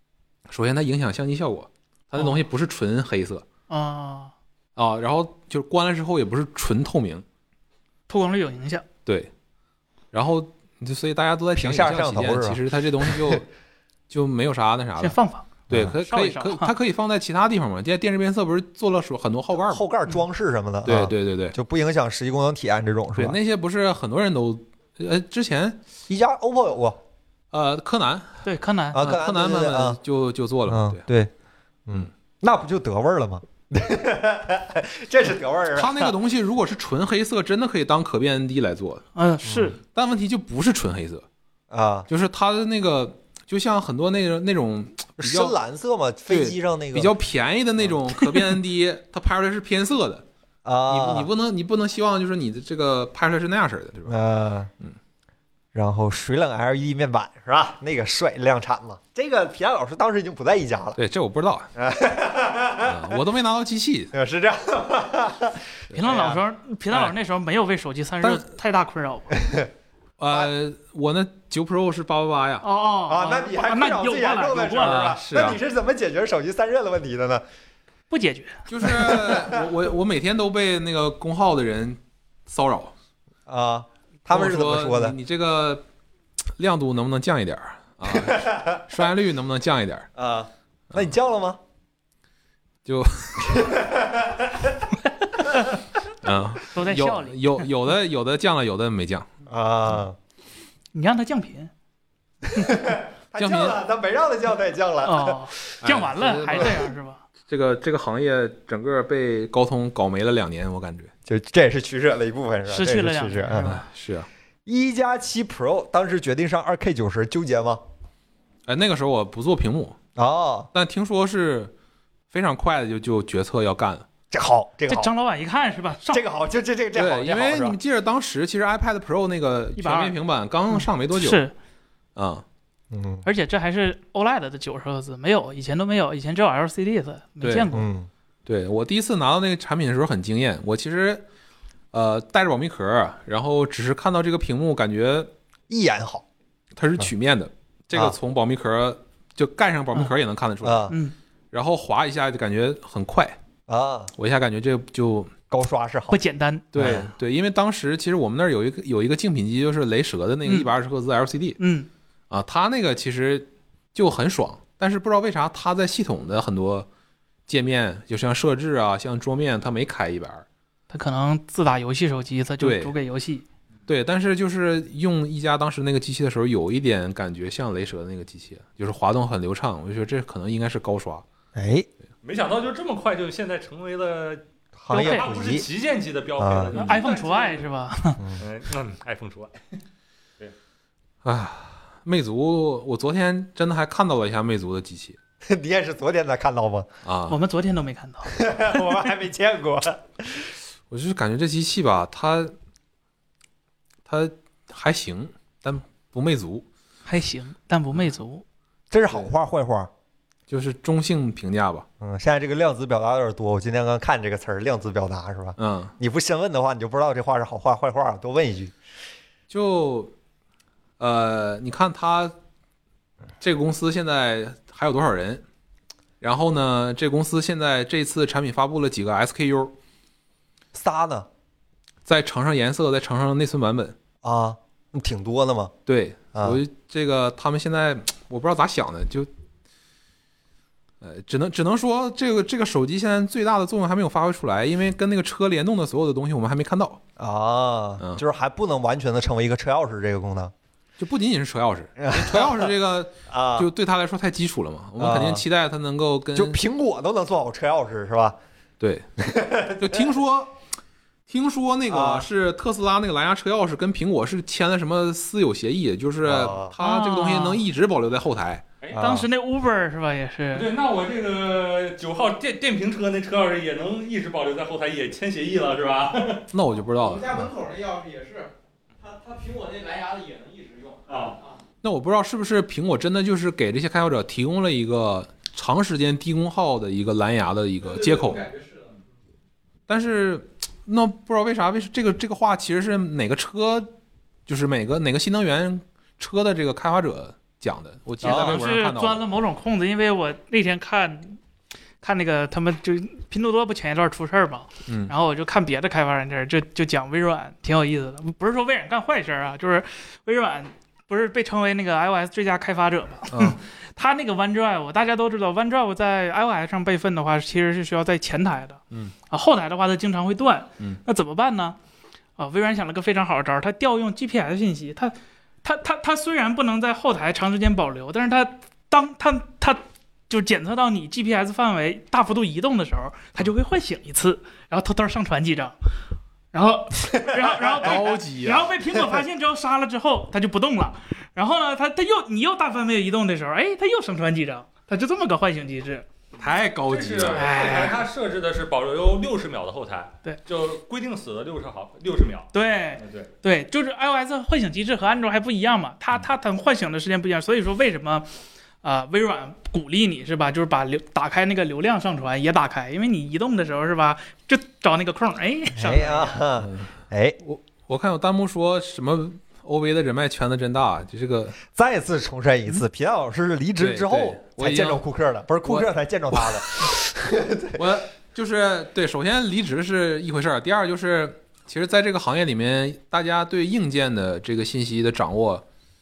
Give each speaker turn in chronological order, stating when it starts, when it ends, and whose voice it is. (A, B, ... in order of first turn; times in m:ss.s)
0:00.5-0:03.4 A
0:03.7-0:04.3 B
0:04.8-0:07.2 A
0:08.1-0:08.8 B
0:10.1-0:13.5 A
0:11.6-0:13.4 C
0:14.1-0:15.2 A
0:15.0-0:16.7 B
0:15.7-0:19.8 A
0:19.6-0:23.4 C
0:20.8-0:21.6 A
0:23.2-0:25.8 A
0:26.1-0:27.0 C
0:27.5-0:28.4 A
0:28.4-0:29.0 B
0:28.9-0:30.0 C
0:29.0-0:31.0 A
0:30.7-0:31.3 C
0:31.9-0:36.1 C
0:35.8-0:39.1 A
0:39.2-0:39.8 B
0:39.4-0:39.8 C
0:39.8-0:41.2 A
0:41.7-0:42.1 C
0:42.1-0:45.6 A
0:45.2-0:47.1 C
0:46.3-0:50.2 A
0:50.6-0:51.3 C
0:50.9-0:54.2 A
0:54.1-0:54.7 C
0:55.7-1:01.0 C
1:01.0-1:01.7 A
1:01.8-1:03.2 C
1:02.8-1:04.1 A
1:04.1-1:06.4 C
1:05.9-1:09.4 B
1:08.2-1:08.5 A
1:10.2-1:12.7 A
1:12.6-1:15.2 B
1:13.1-1:17.4 C
1:14.8-1:15.6 A
1:18.1-1:18.7 B
1:18.7-1:22.9 A
1:18.8-1:19.7 C
1:23.5-1:25.2 C
1:24.3-1:25.8 A
1:26.6-1:30.1 A
1:28.1-1:28.8 C
1:30.2-1:31.6 C
1:32.8-1:33.8 A
1:33.5-1:34.6 C
1:36.2-1:39.3 A
1:36.7-1:37.6 B
1:39.5-1:40.2 C
1:40.9-1:41.7 B
1:42.5-1:45.7 C
1:43.4-1:43.8 A
1:45.0-1:47.2 B
1:45.8-1:46.8 A
1:47.5-1:51.1 A
1:51.3-1:53.7 C
1:52.7-1:53.9 B
1:53.6-1:54.3 A
1:54.7-1:57.8 C
1:58.7-2:00.0 A
2:00.2-2:00.7 C
2:00.7-2:01.7 A
2:02.3-2:04.1 A
2:04.3-2:05.1 C
2:04.9-2:06.2 B
2:06.1-2:07.8 C
2:06.9-2:11.5 A
2:09.8-2:10.2 B
2:10.7-2:11.5 B
2:12.2-2:12.4 A
2:12.9-2:13.3 C
2:13.2-2:17.9 B
2:17.4-2:17.7 A
2:17.7-2:18.1 C
2:18.5-2:21.2 A
2:21.9-2:25.3 A
2:25.7-2:26.2 C
2:26.8-2:30.9 A
2:30.6-2:31.0 C
2:30.9-2:31.2 B
2:31.5-2:33.4 A
2:33.7-2:34.1 C
2:34.2-2:35.3 A
2:35.5-2:36.2 C
2:36.1-2:37.1 B
2:36.7-2:41.6 A
2:36.8-2:37.1 C
2:40.4-2:40.7 B
2:41.6-2:41.9 B
2:42.3-2:46.9 A
2:47.5-2:50.4 A
2:50.9-2:53.5 B
2:52.6-2:52.9 A
2:53.9-3:01.2 A
3:01.6-3:01.9 C
3:02.2-3:07.7 D
3:04.8-3:05.7 C
3:04.9-3:05.3 B
3:06.4-3:06.7 C
3:06.8-3:08.2 B
3:08.4-3:09.6 D
3:11.2-3:15.2 A
3:15.4-3:16.9 C
3:17.0-3:17.4 A
3:17.3-3:18.5 B
3:18.3-3:20.5 C
3:20.9-3:22.5 A
3:24.1-3:26.6 A
3:27.1-3:28.4 B
3:28.9-3:29.9 C
3:30.5-3:31.9 A
3:32.0-3:38.7 C
3:35.6-3:35.9 A
3:39.5-3:40.1 A
3:41.0-3:42.3 A
3:43.4-3:45.4 A
3:46.2-3:49.7 A
3:50.7-3:51.3 C
3:52.0-3:54.0 A
3:54.2-3:55.7 C
3:55.9-3:59.3 A
3:56.4-3:56.6 C
4:01.0-4:07.0 A
4:07.2-4:10.5 C
4:11.0-4:16.6 A
4:12.0-4:12.7 C
4:13.3-4:13.7 C
4:15.0-4:15.4 C
4:16.3-4:18.4 C
4:18.8-4:19.1 A
4:19.2-4:20.0 C
4:19.7-4:20.6 A
4:21.3-4:28.6 A
4:21.9-4:22.3 C
4:26.2-4:26.8 C
4:26.8-4:27.6 B
4:28.9-4:29.3 C
4:28.9-4:30.7 B
4:30.5-4:36.5 D
4:36.5-4:37.5 A
4:36.9-4:41.6 E
4:41.1-4:41.4 D
4:41.8-4:48.5 A
4:47.9-4:48.9 E
4:49.9-4:53.9 A
4:54.5-4:59.2 A
4:58.2-4:58.6 C
4:58.2-5:01.4 B
5:02.0-5:21.8 B
5:04.9-5:05.1 A
5:13.3-5:13.6 A
5:22.4-5:35.8 B
5:36.5-5:46.1 B
5:37.8-5:38.7 A
5:46.4-5:47.9 A
5:46.9-5:53.3 D
5:47.3-5:48.0 B
5:52.5-5:58.3 B
5:58.8-6:06.4 B
6:05.8-6:07.4 C
6:06.6-6:06.9 A
6:07.4-6:11.6 A
6:11.7-6:17.8 C
6:13.8-6:15.0 A
6:15.6-6:16.9 A
6:17.7-6:25.6 A